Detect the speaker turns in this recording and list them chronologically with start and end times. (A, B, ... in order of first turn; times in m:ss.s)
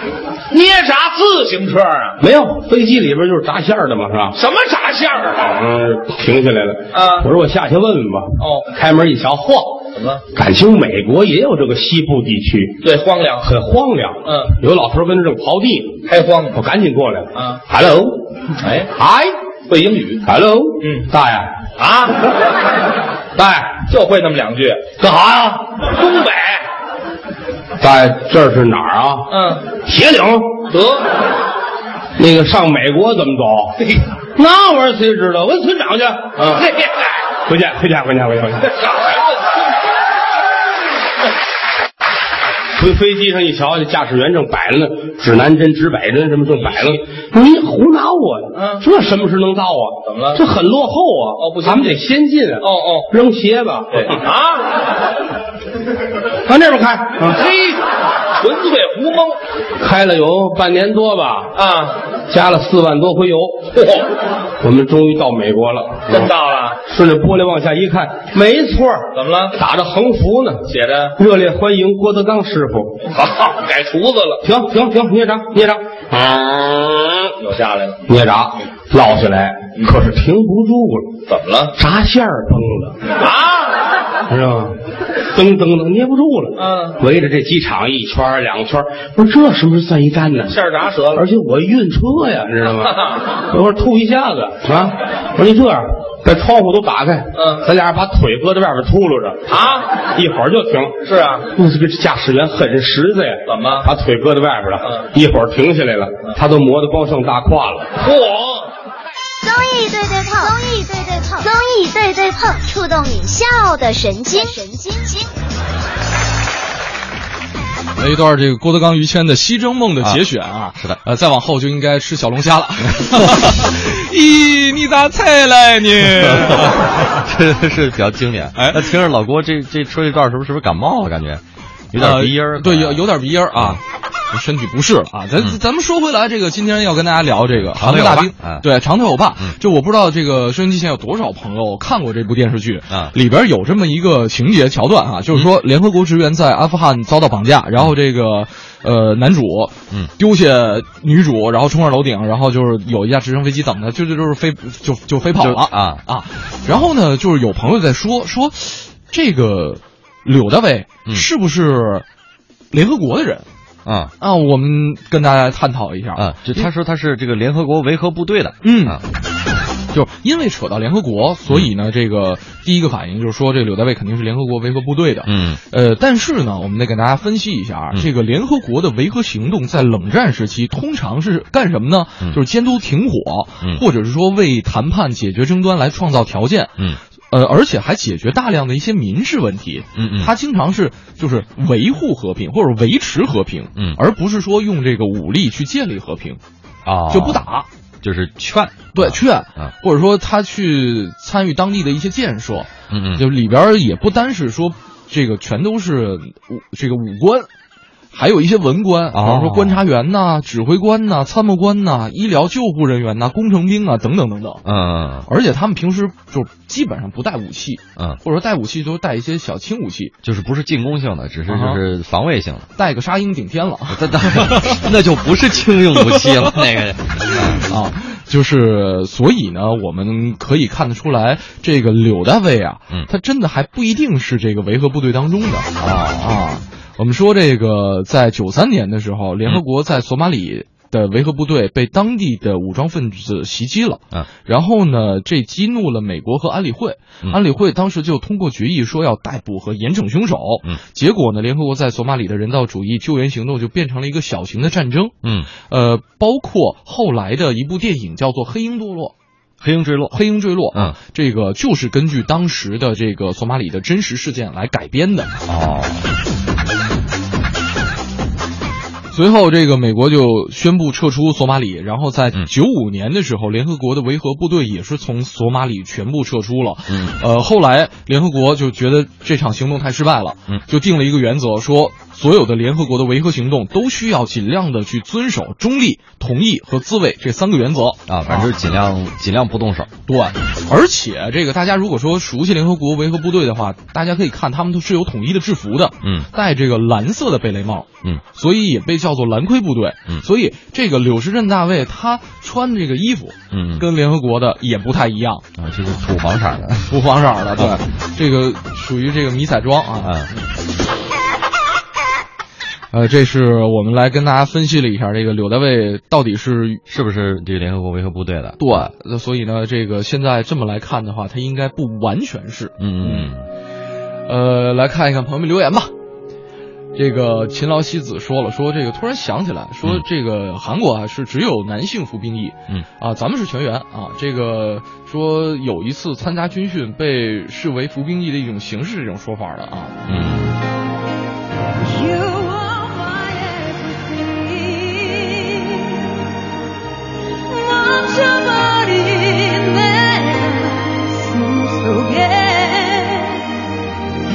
0:00.5-0:02.2 A
0:02.2-0:04.4 B
0:04.4-0:05.5 A
0:05.4-0:09.8 B
0:06.9-0:07.3 A
0:08.4-0:08.7 A
0:10.0-0:10.2 A
0:10.3-0:12.8 B
0:12.8-0:13.5 A
0:13.4-0:16.0 B
0:14.2-0:14.5 A
0:16.1-0:16.6 A
0:16.5-0:18.2 B
0:17.4-0:17.6 A
0:18.6-0:18.9 A
0:19.0-0:19.3 B
0:19.7-0:20.2 A
0:20.3-0:21.5 B
0:20.8-0:21.1 A
0:21.8-0:22.2 A
0:23.4-0:23.8 B
0:23.9-0:25.0 A
0:25.0-0:25.7 B
0:25.8-0:26.7 A
0:27.8-0:30.6 B
0:29.3-0:29.7 A
0:30.7-0:31.1 A
0:32.2-0:33.8 B
0:34.4-0:36.7 B
0:36.4-0:37.1 A
0:37.4-0:38.7 B
0:38.8-0:39.2 A
0:42.8-0:54.2 B
0:48.6-0:48.8 A
0:50.1-0:50.4 A
0:51.4-0:52.0 A
0:52.6-0:53.1 A
0:53.9-0:54.7 A
0:56.5-0:57.4 B
0:57.3-0:57.8 A
0:58.4-0:59.4 A
0:59.8-1:01.5 B
1:01.6-1:02.0 A
1:02.3-1:03.7 B
1:03.7-1:04.1 A
1:04.6-1:06.3 B
1:06.1-1:06.8 A
1:06.9-1:10.6 B
1:09.1-1:09.6 A
1:10.7-1:11.2 A
1:11.2-1:13.0 B
1:13.0-1:14.4 A
1:14.4-1:17.3 B
1:17.4-1:18.0 A
1:18.1-1:21.1 B
1:21.3-1:21.8 A
1:21.8-1:23.0 B
1:23.2-1:23.8 A
1:24.3-1:24.8 B
1:25.3-1:30.6 B
1:26.6-1:27.0 A
1:30.5-1:31.2 A
1:31.1-1:39.4 B
1:37.4-1:37.7 A
1:39.5-1:39.9 A
1:40.1-1:41.0 B
1:41.0-1:41.5 A
1:41.5-1:47.9 B
1:43.5-1:43.9 A
1:48.0-1:48.7 A
1:49.4-1:55.3 C
1:58.0-2:06.9 D
2:03.0-2:03.5 E
2:06.2-2:13.8 E
2:08.6-2:08.9 D
2:12.0-2:42.0 D
2:17.6-2:18.7 E
2:35.4-2:36.0 E
2:42.7-2:43.5 D
2:43.8-2:44.1 E
2:44.2-2:46.7 D
2:46.2-2:49.0 E
2:48.6-2:49.0 D
2:49.9-3:06.8 D
2:55.3-2:55.6 E
3:07.3-3:16.4 D
3:10.0-3:10.3 E
3:16.8-3:17.5 E
3:17.1-3:17.7 D
3:18.0-3:19.7 E
3:19.0-3:27.5 D
3:22.9-3:23.3 E
3:28.1-3:34.6 D
3:29.1-3:29.8 E
3:34.6-3:35.3 E
3:35.2-3:40.1 D
3:40.2-3:42.7 E
3:41.5-3:41.8 D
3:42.8-3:44.8 D
3:43.9-3:47.7 E
3:46.1-3:46.6 D
3:47.3-4:19.1 D
3:55.8-3:56.3 E
4:15.2-4:15.5 E
4:19.6-4:20.2 E
4:20.1-4:25.4 D
4:20.7-4:21.0 E
4:25.5-4:26.0 E
4:29.1-4:48.5 D
4:36.9-4:37.2 E
4:48.1-4:49.9 E
4:50.1-5:05.5 D
4:56.0-4:56.3 E
5:03.5-5:03.9 E
5:05.6-5:07.0 E
5:06.9-5:10.4 D
5:10.0-5:10.3 E
5:12.9-5:16.8 D
5:16.9-5:18.7 E
5:18.6-5:23.3 D
5:22.8-5:23.5 E
5:24.3-5:25.9 D
5:27.0-5:40.0 D
5:40.1-5:40.6 E
5:41.8-5:46.2 F
5:47.5-5:53.6 F